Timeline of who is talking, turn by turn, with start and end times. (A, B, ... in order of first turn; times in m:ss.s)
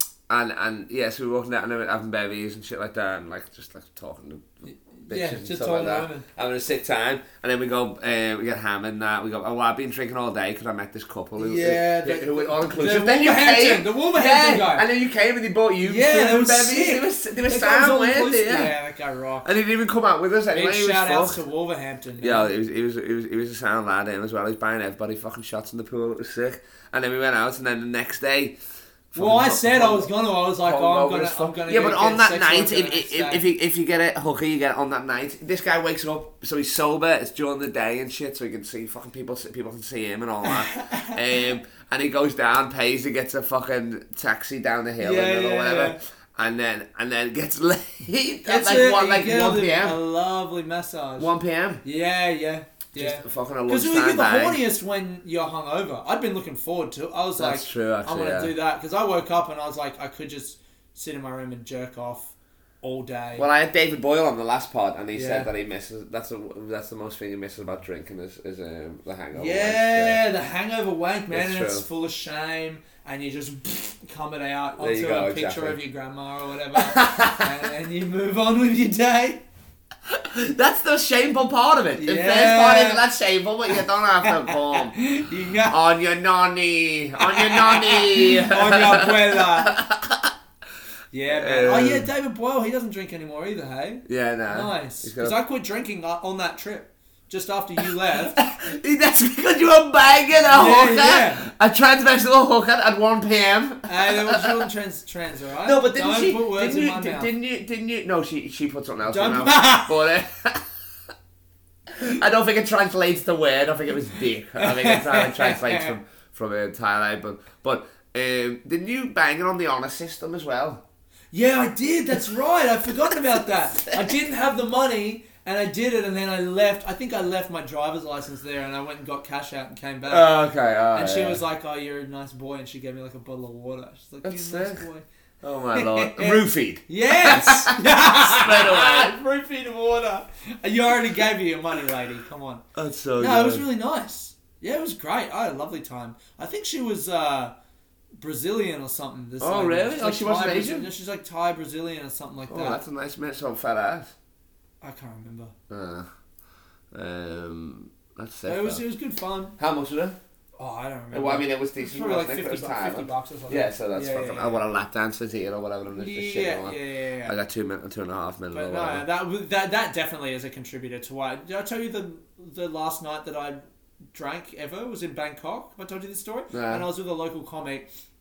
0:00.3-0:18.8 A
0:04.7-0:06.3 B
0:11.4-0:14.8 B
0:15.8-0:19.5 B
0:19.4-0:21.4 A
0:20.5-0:22.5 B
0:22.2-0:28.6 A
0:29.1-0:50.0 A
0:29.2-0:33.4 B
0:40.5-0:41.2 B
0:45.0-0:46.0 B
0:48.4-0:51.3 B
0:51.2-0:51.8 A
0:51.8-1:03.5 B
0:53.0-0:54.6 A
0:57.4-0:58.5 A
1:03.4-1:10.2 A
1:05.1-1:05.5 B
1:09.3-1:19.4 B
1:11.3-1:11.9 A
1:14.8-1:15.8 A
1:16.8-1:17.5 A
1:20.1-1:25.0 A
1:22.0-1:23.0 B
1:23.8-1:25.8 B
1:25.7-1:30.3 A
1:27.2-1:29.8 B
1:31.1-1:38.4 B
1:31.3-1:32.1 A
1:34.1-1:35.4 A
1:38.4-1:44.7 A
1:40.5-1:41.5 B
1:43.9-1:47.3 B
1:45.6-1:50.7 A
1:49.1-1:49.9 B
1:51.9-2:00.8 A
1:54.6-1:55.9 B
2:01.3-2:10.3 B
2:10.1-2:11.4 A
2:10.9-2:15.0 B
2:14.2-2:14.8 A
2:15.4-2:19.1 A
2:15.7-2:22.6 B
2:22.8-2:23.7 A
2:23.2-2:27.6 B
2:28.2-2:32.8 B
2:29.4-2:30.9 A
2:32.5-2:34.1 A
2:34.8-2:35.5 B
2:35.7-2:36.1 A
2:36.9-2:38.8 A
2:38.5-2:39.5 B
2:39.6-2:40.2 A
2:40.6-2:44.6 B
2:41.1-2:49.0 A
2:45.9-2:47.4 B
2:48.5-2:53.6 B
2:54.1-2:57.9 B
2:56.5-2:56.9 A